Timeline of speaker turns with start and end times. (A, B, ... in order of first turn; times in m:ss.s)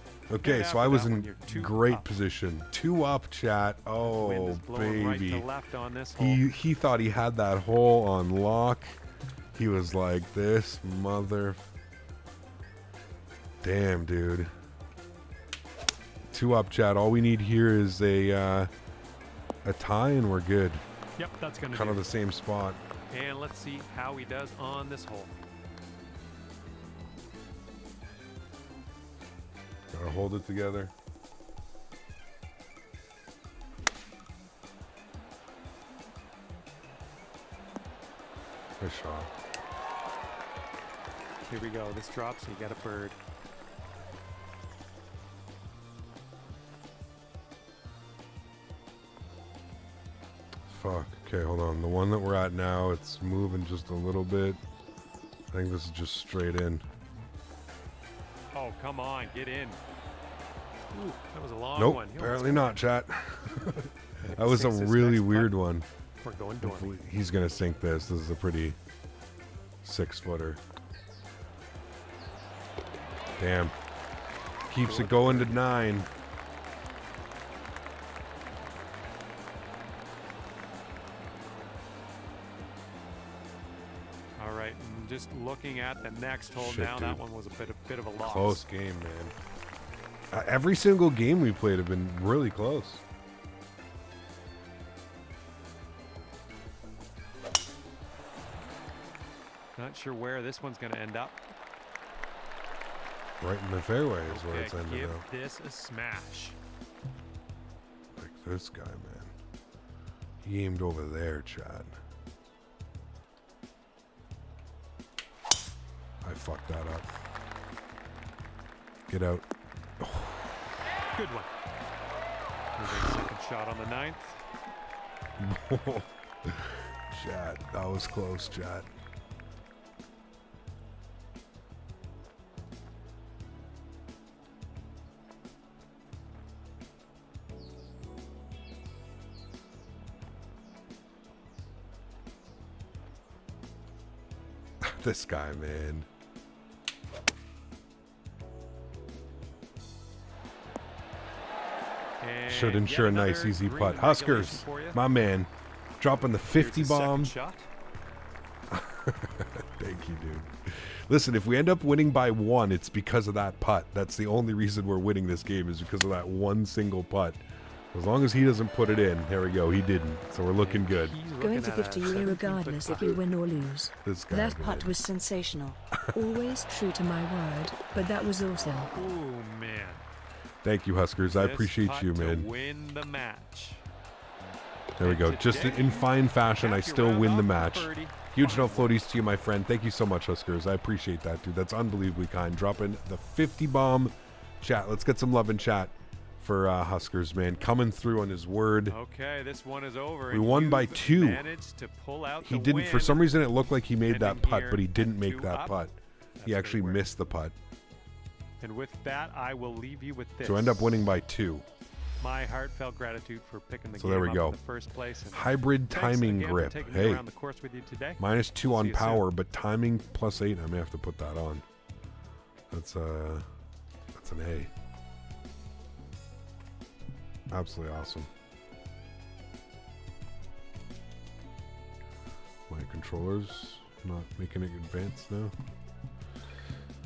0:00.3-0:05.5 A
0:00.4-0:02.1 B
0:04.0-0:06.4 B
0:06.2-0:09.0 A
0:09.5-0:11.6 A
0:13.6-0:14.5 A
0:16.3-0:18.7 A
0:19.6-0:20.8 A
0:21.2-0:22.2 B
0:21.7-0:22.8 A
0:23.1-0:25.4 B
0:29.9-0:30.9 A
0:38.8-0:39.3 A
0:41.5-0:43.2 B
0:50.7-0:54.6 A
0:55.5-0:56.8 A
0:58.5-0:59.8 B
1:00.9-1:02.8 B
1:01.8-1:05.9 A
1:04.3-1:05.6 B
1:06.2-1:07.0 B
1:06.6-1:08.8 A
1:09.8-1:10.6 A
1:13.4-1:13.8 A
1:14.7-1:16.1 A
1:14.8-1:15.6 B
1:24.4-1:28.6 B
1:26.5-1:27.2 A
1:28.2-1:29.4 A
1:30.3-1:33.0 A
1:39.8-1:41.5 B
1:43.4-1:45.2 A
1:44.3-1:46.6 B
1:48.2-1:49.3 A
1:50.4-1:52.0 A
1:56.2-1:57.1 A
1:59.1-1:59.4 A
2:00.0-2:00.6 A
2:01.1-2:01.5 B
2:02.8-2:04.4 B
2:05.4-2:08.9 A
2:24.8-2:26.1 A
2:32.2-2:35.0 B
2:32.5-2:37.4 A
2:36.4-2:37.7 B
2:38.7-2:51.2 A
2:50.6-2:53.2 B
2:51.4-2:58.9 C
2:54.0-2:55.0 A
2:58.9-3:00.0 B
3:00.6-3:02.5 A
3:01.2-3:03.8 B
3:05.0-3:19.0 A
3:05.0-3:09.0 B
3:18.9-3:23.4 B
3:20.3-3:21.5 A
3:22.4-3:27.6 A
3:24.1-3:25.8 B
3:26.4-3:27.1 B
3:28.6-3:31.0 B
3:30.4-3:31.6 A
3:32.2-3:39.3 B
3:34.0-3:34.6 A
3:35.3-3:37.2 A
3:38.2-3:41.6 A
3:42.7-3:43.4 A
3:44.1-3:44.7 A
3:47.5-3:48.3 A
3:52.7-3:55.5 A